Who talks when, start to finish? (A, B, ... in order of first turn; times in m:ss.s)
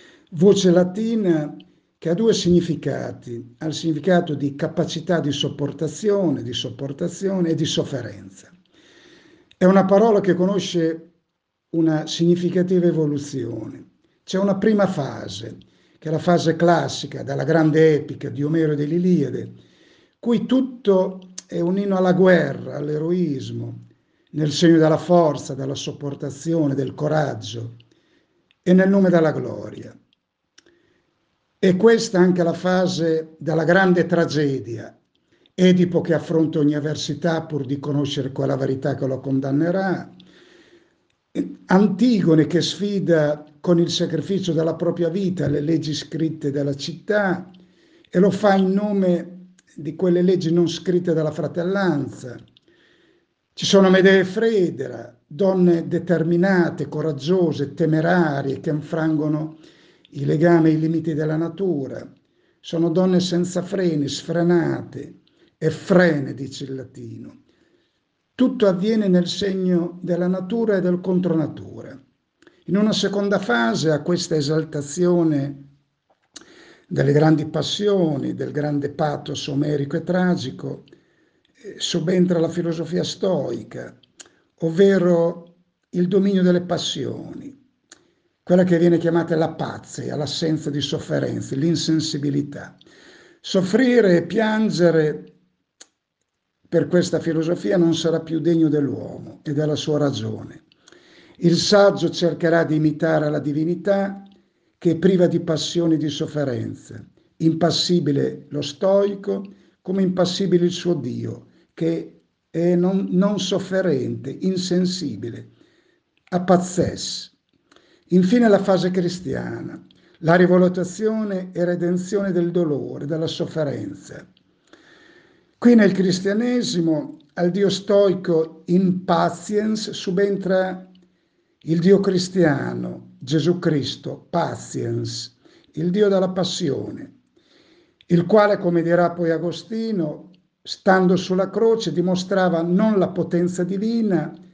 0:00.3-0:08.5 A
0:09.6-0:11.1 A
0:11.7-0:19.6 A
0:20.2-0:27.8 A
0:28.6-0:29.9 A
0:31.6-0:35.0 A
0:35.6-0:40.1 A
0:41.3-0:47.5 A
0:48.1-0:52.4 A
0:53.5-0:59.6 A
1:00.1-1:02.1 A
1:02.6-1:07.4 A
1:08.4-1:12.0 A
1:12.6-1:15.7 A
1:16.9-1:20.8 A
1:21.6-1:24.0 A
1:24.6-1:27.6 A
1:28.4-1:32.8 A
1:33.4-1:35.3 A
1:36.7-1:40.6 A
1:41.4-1:55.5 A
1:56.3-1:57.3 A
1:58.1-2:04.2 A
2:05.6-2:10.9 A
2:11.6-2:17.1 A
2:18.1-2:24.4 A